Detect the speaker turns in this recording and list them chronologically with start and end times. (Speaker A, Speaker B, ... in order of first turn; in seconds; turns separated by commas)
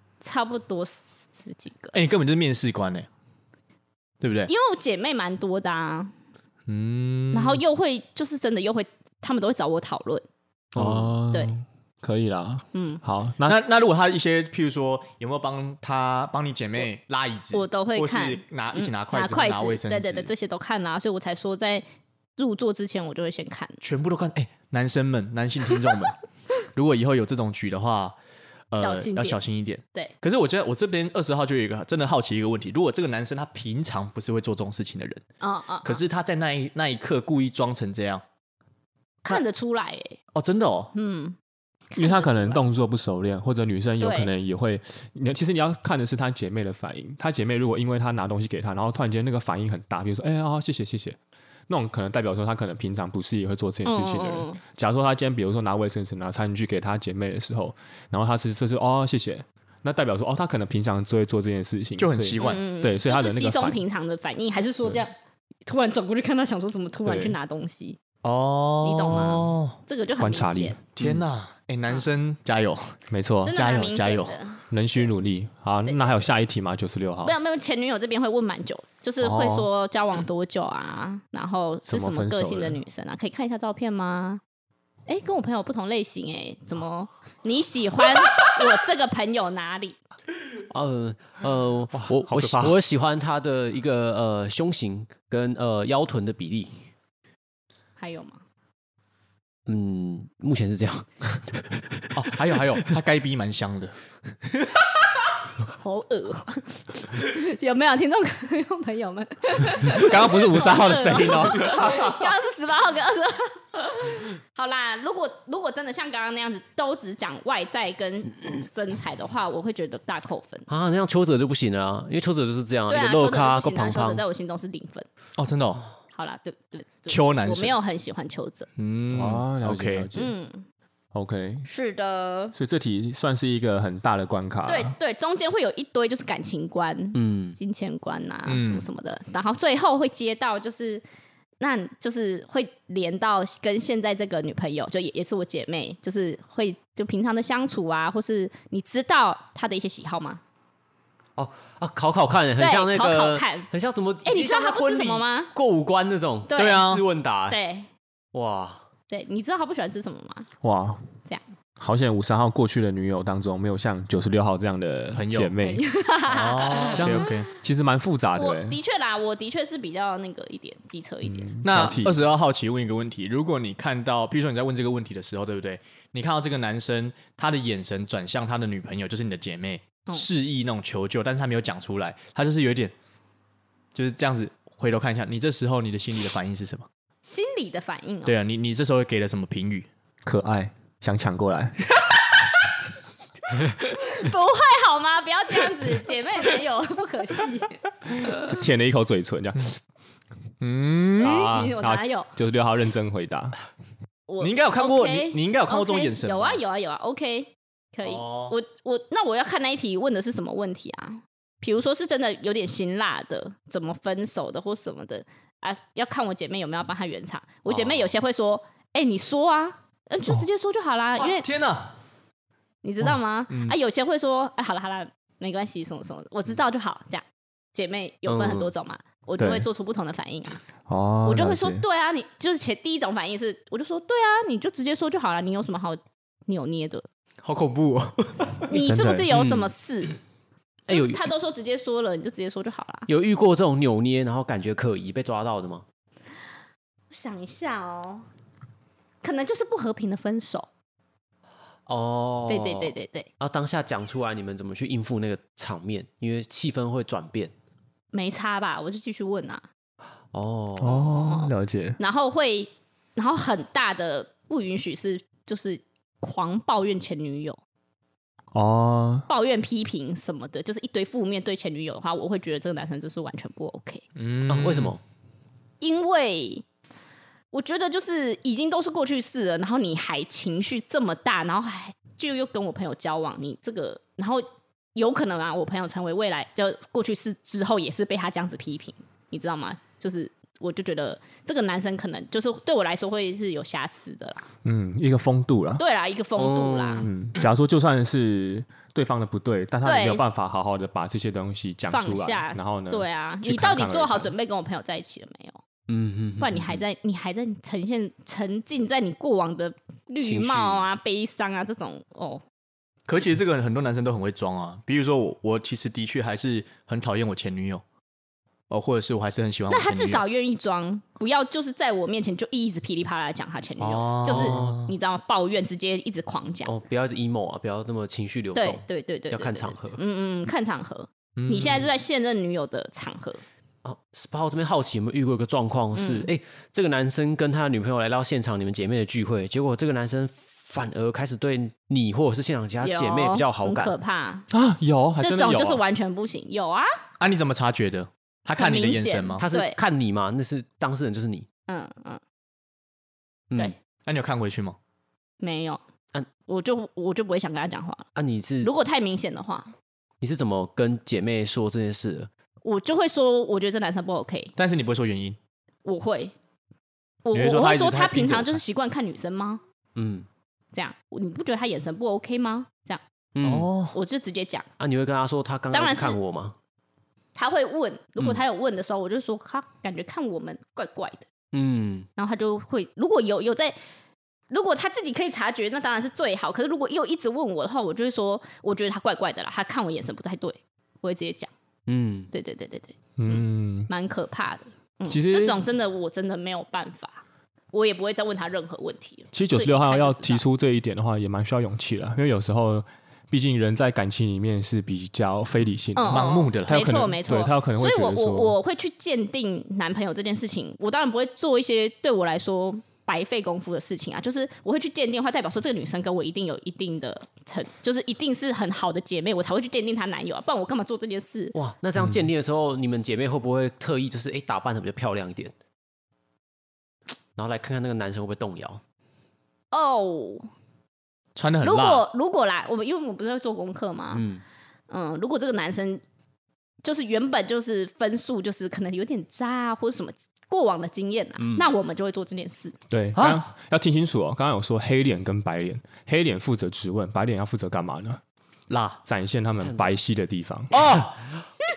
Speaker A: 0.2-1.9, Speaker B: 1.9-3.1, Speaker B: 4.2-4.5, Speaker A: 4.5-6.1, Speaker B: 6.7-7.6, Speaker A: 7.3-10.2, Speaker C: 10.8-13.6, Speaker D: 10.8-11.1, Speaker A: 12.7-13.0, Speaker B: 13.5-20.3, Speaker A: 17.5-21.8, Speaker A: 22.4-23.8, Speaker B: 23.8-26.2, Speaker B: 26.7-28.2, Speaker B: 28.7-35.2, Speaker A: 28.8-29.4, Speaker A: 35.4-36.0, Speaker B: 35.8-38.2, Speaker A: 39.2-40.2, Speaker B: 40.3-40.9, Speaker A: 41.0-41.4, Speaker A: 41.9-42.6, Speaker C: 42.0-51.2, Speaker A: 44.0-44.3, Speaker C: 51.7-63.8, Speaker A: 53.9-54.6, Speaker B: 62.0-62.7, Speaker A: 62.4-65.1, Speaker A: 65.7-68.0, Speaker C: 67.0-67.4, Speaker B: 68.2-69.8, Speaker A: 68.8-70.8, Speaker C: 70.2-71.2, Speaker B: 71.0-72.9, Speaker C: 73.1-73.5, Speaker A: 73.5-75.1, Speaker B: 73.5-74.4, Speaker C: 74.7-77.3, Speaker A: 75.9-76.2, Speaker A: 77.2-84.4, Speaker C: 79.2-79.7, Speaker C: 81.9-82.8, Speaker A: 85.1-90.0, Speaker D: 90.7-96.8, Speaker C: 91.9-92.8, Speaker A: 98.0-98.4, Speaker D: 99.7-102.2, Speaker B: 102.2-104.0, Speaker A: 105.7-120.7, Speaker C: 109.9-112.3, Speaker D: 120.7-124.2, Speaker A: 122.9-125.1, Speaker B: 125.4-125.8, Speaker A: 126.1-128.7, Speaker B: 127.1-127.8, Speaker B: 128.8-130.1, Speaker C: 129.1-130.3, Speaker A: 130.2-130.7, Speaker C: 131.1-131.7, Speaker A: 131.7-132.6, Speaker C: 132.6-134.9, Speaker A: 134.7-141.0, Speaker D: 137.2-137.6, Speaker B: 138.5-138.9, Speaker A: 141.6-150.4, Speaker D: 151.4-157.6, Speaker A: 152.6-153.7, Speaker A: 154.2-155.5, Speaker A: 156.5-156.9, Speaker B: 156.6-157.0, Speaker A: 157.5-157.9, Speaker D: 158.3-158.8, Speaker A: 159.1-160.5, Speaker C: 160.6-161.0, Speaker C: 161.8-165.8, Speaker B: 165.1-165.5, Speaker A: 165.6-167.5, Speaker B: 166.3-167.5, Speaker D: 167.0-167.2, Speaker C: 167.0-168.8, Speaker A: 168.4-171.5, Speaker C: 171.2-172.2, Speaker B: 171.6-182.9, Speaker B: 183.9-186.9, Speaker A: 187.2-188.4, Speaker B: 188.3-189.9, Speaker C: 190.3-191.9, Speaker A: 193.8-198.4, Speaker C: 198.2-199.8, Speaker B: 200.6-201.5, Speaker C: 201.2-203.6, Speaker A: 201.2-202.3, Speaker A: 204.3-221.4, Speaker B: 204.4-206.6, Speaker B: 208.0-208.6, Speaker D: 217.7-218.1, Speaker B: 221.2-222.0, Speaker A: 222.8-227.2, Speaker B: 223.5-223.8, Speaker A: 227.8-230.6, Speaker D: 228.3-228.7, Speaker C: 229.4-229.7, Speaker C: 230.9-231.8, Speaker A: 231.2-237.1, Speaker B: 237.4-238.7, Speaker A: 238.7-240.2, Speaker C: 238.7-239.3, Speaker D: 239.3-239.7, Speaker A: 240.9-243.1, Speaker D: 240.9-241.3, Speaker D: 243.1-245.8, Speaker A: 247.1-248.3, Speaker A: 249.2-250.7, Speaker D: 251.9-257.5, Speaker A: 252.5-253.3, Speaker A: 258.1-259.6, Speaker D: 260.3-261.1, Speaker C: 260.8-262.0, Speaker A: 261.1-267.6, Speaker C: 268.5-269.3, Speaker A: 269.3-274.0, Speaker B: 274.2-275.0, Speaker D: 274.4-275.0, Speaker A: 275.8-276.6, Speaker A: 277.5-284.4, Speaker A: 285.0-294.5, Speaker C: 294.6-295.8, Speaker A: 295.8-297.1, Speaker D: 296.4-297.1, Speaker C: 297.0-304.3, Speaker A: 299.8-300.2, Speaker A: 301.9-305.6, Speaker D: 305.9-306.8, Speaker A: 306.4-312.4, Speaker D: 310.2-310.9, Speaker B: 313.1-317.8, Speaker B: 318.7-320.2, Speaker A: 319.7-326.7, Speaker B: 323.8-324.9, Speaker D: 324.3-324.9, Speaker D: 326.6-330.0, Speaker A: 328.6-333.4, Speaker B: 331.4-331.9, Speaker D: 333.8-344.0, Speaker A: 335.9-336.3, Speaker A: 342.8-344.5, Speaker C: 344.5-345.8, Speaker A: 345.2-346.9, Speaker B: 347.2-349.4, Speaker A: 348.6-349.8, Speaker D: 349.4-351.5, Speaker A: 351.7-352.2, Speaker B: 354.1-354.8, Speaker A: 355.4-355.8, Speaker A: 356.5-358.1, Speaker D: 358.2-358.7, Speaker A: 358.6-359.7, Speaker D: 360.2-362.3, Speaker A: 362.6-364.5, Speaker B: 364.6-365.4, Speaker A: 365.9-366.3, Speaker A: 367.2-369.6, Speaker B: 367.3-368.6, Speaker D: 369.9-370.3, Speaker A: 370.7-374.7, Speaker D: 373.4-374.0, Speaker D: 374.8-376.6, Speaker A: 375.7-376.2, Speaker A: 377.4-381.3, Speaker D: 381.5-382.1, Speaker A: 382.2-383.8, Speaker A: 384.5-391.5, Speaker D: 391.9-392.3, Speaker A: 392.3-400.4, Speaker C: 393.2-393.9, Speaker C: 395.1-395.6, Speaker C: 399.3-408.5, Speaker A: 406.0-421.6, Speaker B: 406.1-406.9, Speaker D: 421.5-425.5, Speaker D: 427.4-428.8, Speaker A: 429.7-430.5, Speaker B: 431.4-432.1, Speaker A: 431.6-434.2, Speaker D: 434.1-434.4, Speaker A: 434.9-436.0, Speaker A: 436.8-442.8, Speaker D: 441.4-441.7, Speaker C: 442.9-448.2, Speaker B: 443.2-443.4, Speaker B: 448.7-449.0, Speaker C: 449.1-451.0, Speaker D: 449.6-449.9, Speaker B: 450.7-451.2